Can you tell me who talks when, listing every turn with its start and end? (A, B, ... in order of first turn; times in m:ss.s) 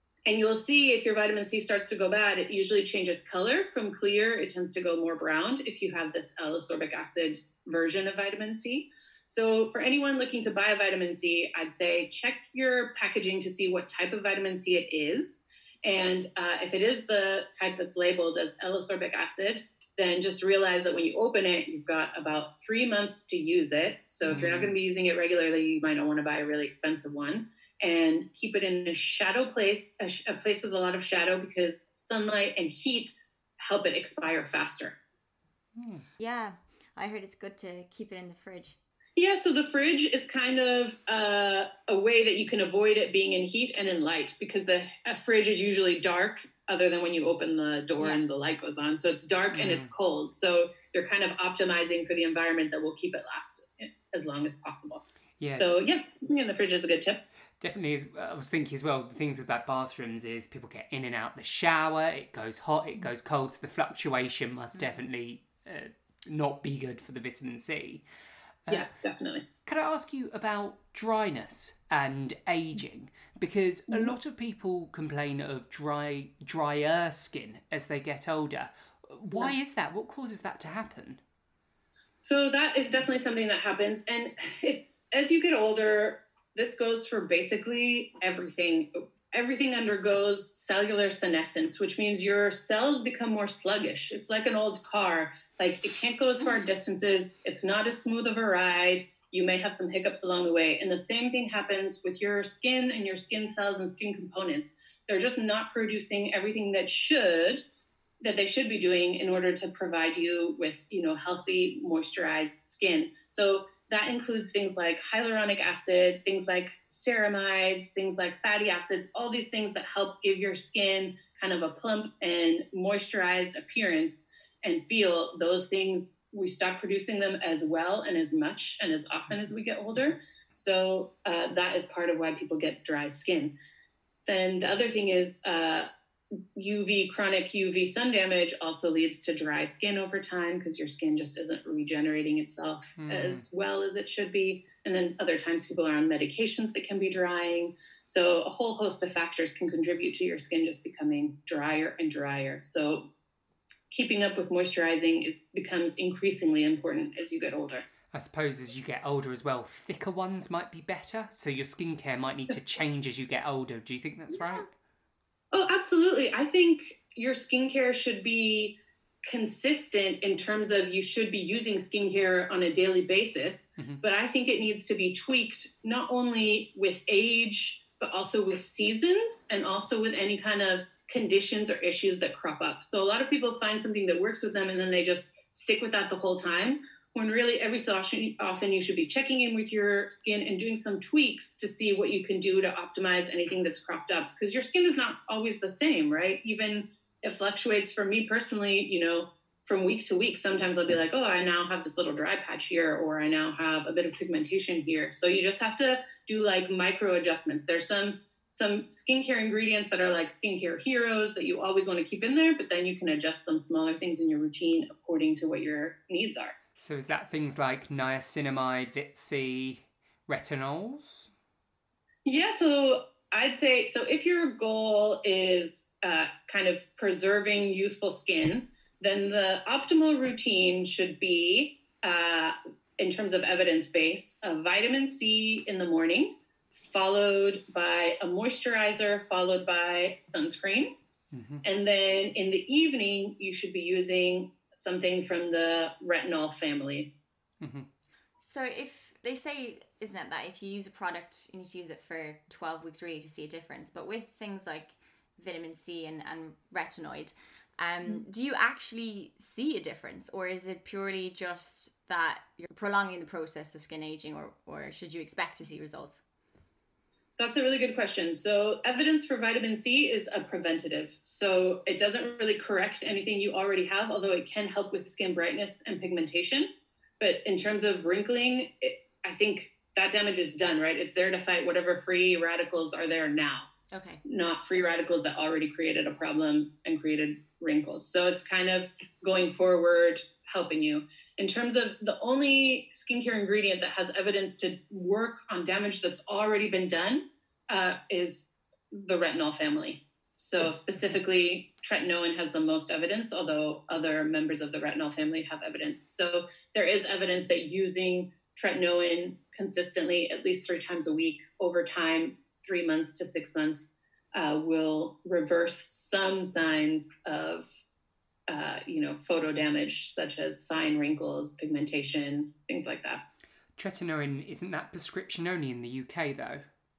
0:00.2-0:35.0 A
0:24.2-0:24.8 B
0:35.7-0:36.0 B
0:36.2-0:38.8 C
0:39.2-0:57.2 A
0:49.5-0:49.9 B
0:55.4-0:55.7 B
0:57.6-1:08.0 B
1:08.7-1:09.4 A
1:09.6-1:21.2 B
1:22.2-1:47.6 A
1:48.2-2:13.5 A
2:14.2-2:15.9 A
2:16.5-2:33.1 A
2:23.0-2:23.4 B
2:33.9-2:37.8 A
2:38.1-2:44.7 B
2:45.5-2:48.7 A
2:49.2-3:36.5 A
3:36.8-3:41.3 B
3:42.2-4:00.9 A
4:01.3-4:01.6 B
4:01.6-4:07.1 A
4:07.6-4:07.9 B
4:08.4-4:26.2 C
4:27.4-4:36.7 A
4:37.2-4:43.7 A
4:43.9-4:44.2 C
4:44.2-5:17.6 A
5:18.5-5:23.2 A
5:23.8-5:26.6 B